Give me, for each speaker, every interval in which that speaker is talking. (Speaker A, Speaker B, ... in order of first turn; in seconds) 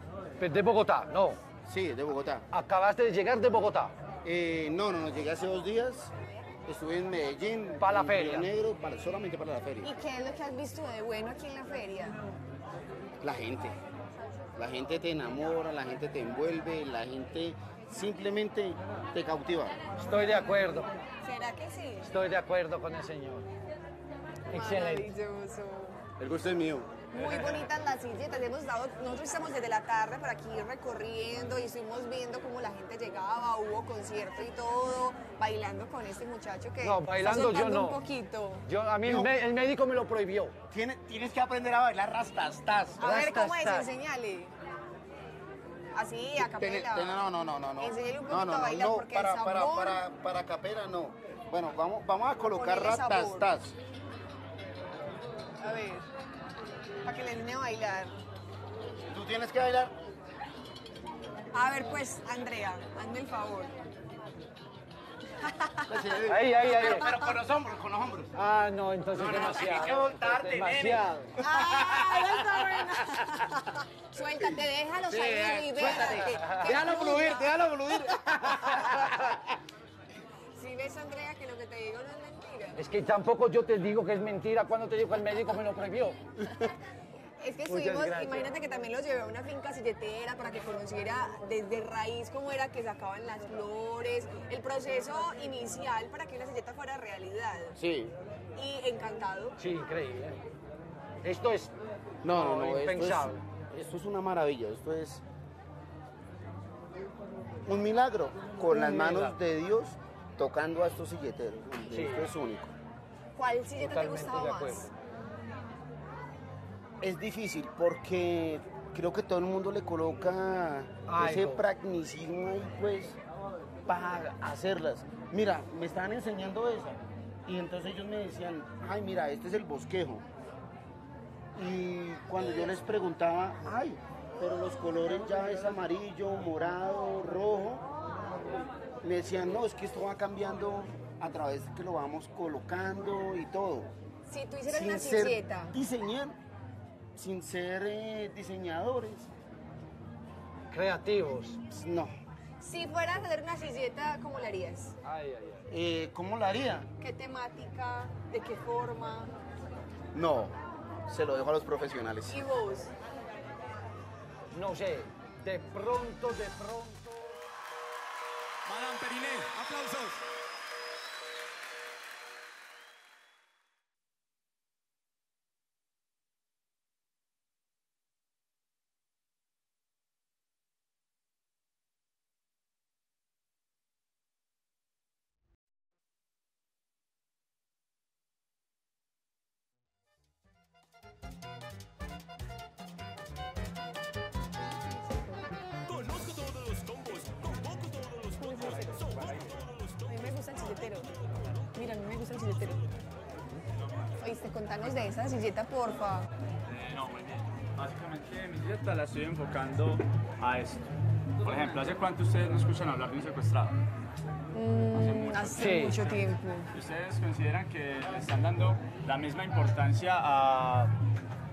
Speaker A: 0.4-1.4, 2.5-3.9, 7.8-8.5, 20.0-20.9, 22.0-23.4, 24.5-25.1, 36.8-38.0, 38.6-40.5, 43.0-43.9, 66.3-67.1, 68.3-71.3, 76.4-76.7, 82.8-86.2, 87.7-88.5, 99.6-100.4, 101.2-101.7, 102.2-103.4, 108.7-109.4, 111.9-112.3, 113.8-114.9, 121.1-121.6, 150.7-151.6, 155.0-155.7, 164.5-167.4, 215.6-216.0
Speaker B: 1.6-2.4, 4.2-6.1, 6.7-9.9, 13.2-13.8, 14.6-19.8, 26.2-27.0, 39.0-39.3, 40.7-43.1, 46.4-53.7, 59.1-59.9, 65.9-68.3, 69.1-73.3, 75.1-79.5, 97.8-98.1, 102.2-105.2, 107.7-112.7, 117.0-123.2, 123.9-130.2, 131.6-137.8, 139.0-143.9, 144.7-146.3, 147.2-149.3, 151.7-152.1, 155.7-156.9, 160.1-160.5, 161.1-162.4
Speaker C: 9.8-12.2, 21.2-22.1, 24.5-26.0, 27.1-38.6, 43.0-44.5, 45.9-47.2, 47.8-50.0, 52.5-53.5, 55.6-56.0, 57.0-58.2, 61.5-63.7, 65.4-65.9, 71.4-77.7, 80.5-82.8, 87.4-97.8, 98.5-99.6, 113.3-114.9, 144.3-145.7, 152.6-154.9, 157.0-159.3, 162.3-162.9, 198.3-199.1, 200.0-201.1, 201.7-202.9, 204.2-206.3, 214.5-216.7
Speaker D: 27.1-27.6, 168.6-170.2, 195.9-199.8, 206.7-213.8, 214.9-220.9